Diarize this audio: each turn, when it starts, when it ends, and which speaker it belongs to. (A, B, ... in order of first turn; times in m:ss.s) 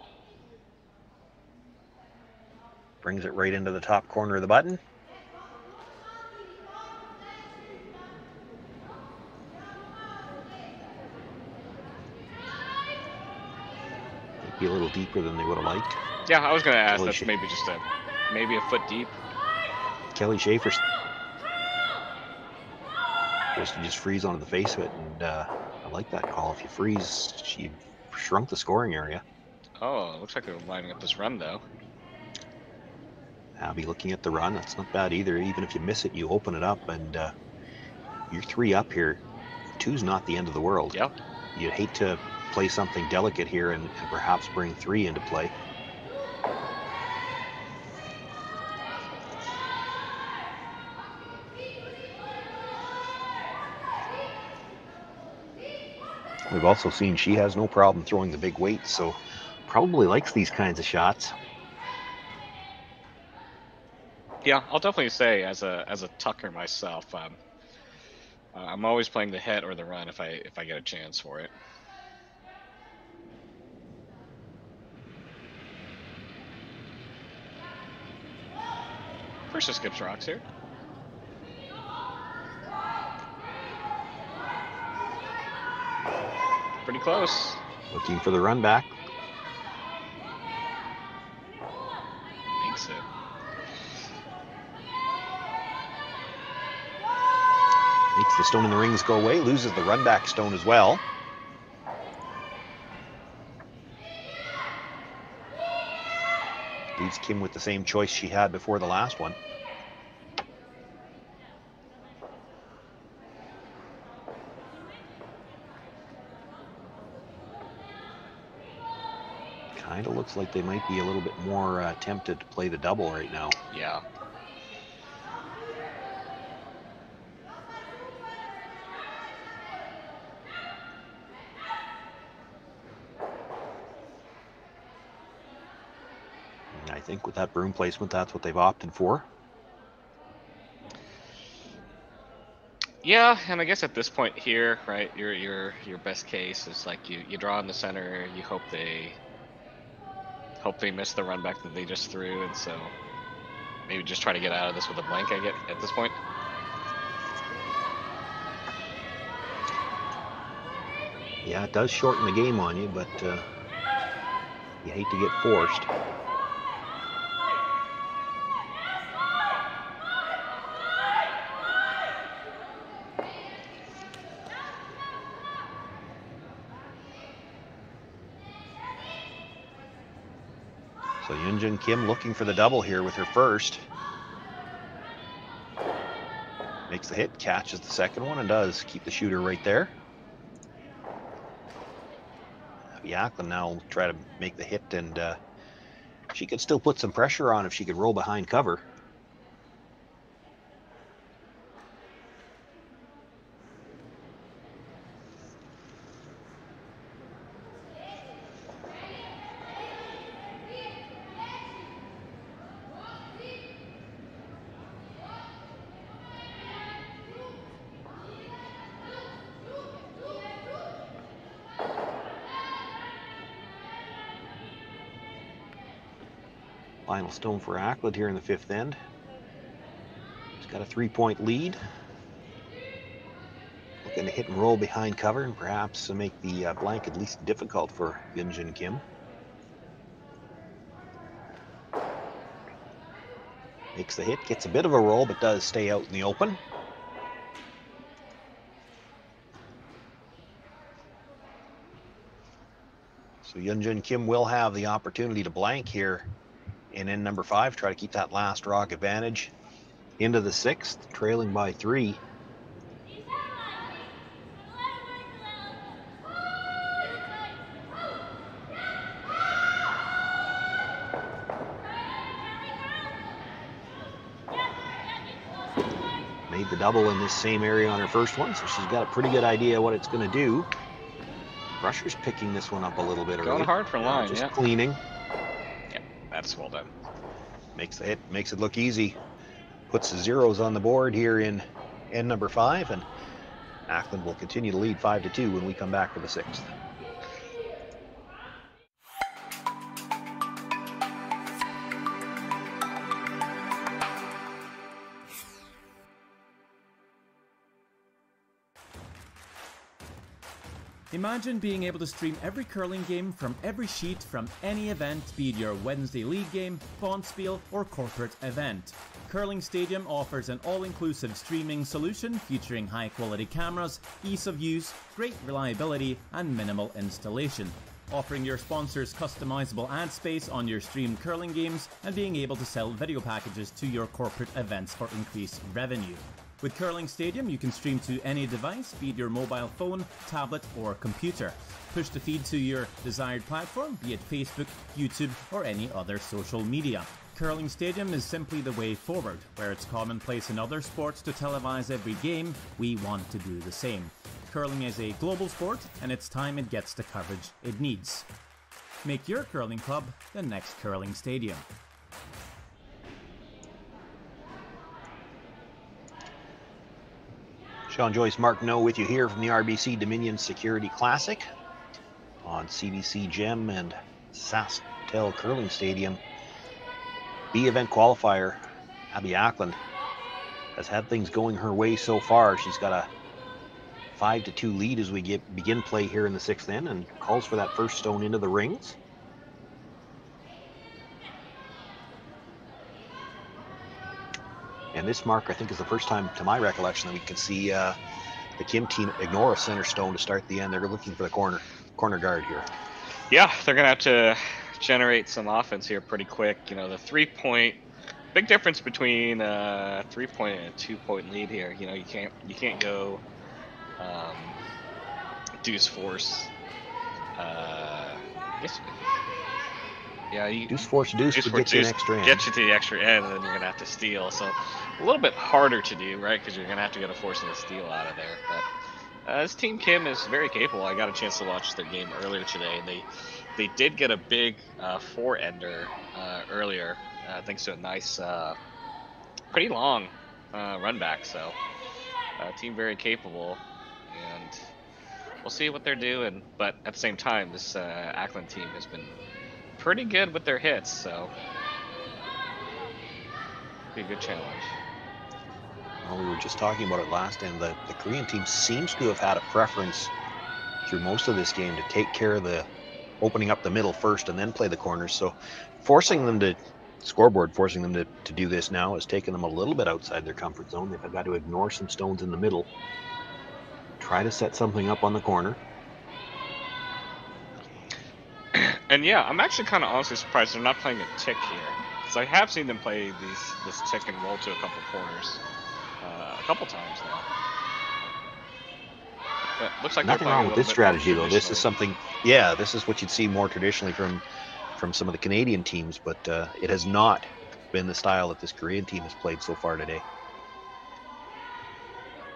0:03.0-0:04.8 A
0:14.4-0:16.0 A
0:16.3-0:19.2 B
0:16.9-0:17.3 A
0:20.1-0:20.8 A
0:23.5-0:29.2 A
0:29.8-0:31.6 B
0:33.6-0:37.3 A
0:38.3-0:39.2 A
0:39.8-0:41.0 A
0:41.5-0:45.5 A
0:56.5-1:01.4 A
1:04.4-1:07.4 B
1:08.5-1:11.5 B
1:19.5-1:20.4 B
1:26.8-1:27.6 B
1:27.9-1:28.9 A
1:32.6-1:33.1 B
1:38.1-1:41.0 A
1:47.0-1:49.4 A
1:59.7-2:03.6 A
2:03.7-2:04.0 B
2:16.7-2:19.3 A
2:23.0-2:29.2 B
2:30.6-2:32.9 B
2:33.9-2:36.2 B
2:41.4-2:43.5 A
2:44.8-2:45.9 A
3:01.2-3:03.8 A
3:06.9-3:09.9 A
3:12.9-3:15.4 A
3:16.3-3:18.8 A
3:47.1-3:49.0 A
3:50.6-3:51.8 A
3:54.0-3:59.0 A
4:03.9-4:06.6 A
4:13.4-4:16.3 A
4:16.9-4:19.5 A
4:20.2-4:22.2 A
4:36.5-4:40.7 A
4:41.8-4:45.0 A
4:43.4-4:44.5 B
4:45.9-4:46.9 B
4:47.7-4:49.2 A
4:49.9-4:53.1 A
4:53.9-4:56.7 A
5:11.1-5:58.3 C
5:59.0-6:01.6 C
6:07.9-6:11.5 A
6:12.4-6:16.2 A
6:17.5-6:19.8 A
6:20.8-6:23.1 A
6:24.2-6:29.0 A
6:34.9-6:38.0 A
6:38.6-6:42.7 A
6:43.3-6:47.8 B
6:48.3-6:53.2 B
6:54.0-6:54.6 B
6:55.6-6:56.5 B
6:57.4-6:59.0 B
7:00.3-7:08.7 B
7:00.7-7:02.5 A
7:09.2-7:18.6 B
7:19.5-7:21.6 B
7:22.4-7:24.7 B
7:25.4-7:29.2 B
7:29.8-7:31.3 B
7:33.9-7:34.8 B
7:36.0-7:40.1 A
7:40.8-7:42.7 A
7:43.2-7:52.7 A
7:54.0-7:55.6 A
7:58.5-8:05.4 B
8:06.0-8:07.3 B
8:09.6-8:11.7 B
8:10.0-8:14.2 A
8:14.8-8:20.0 A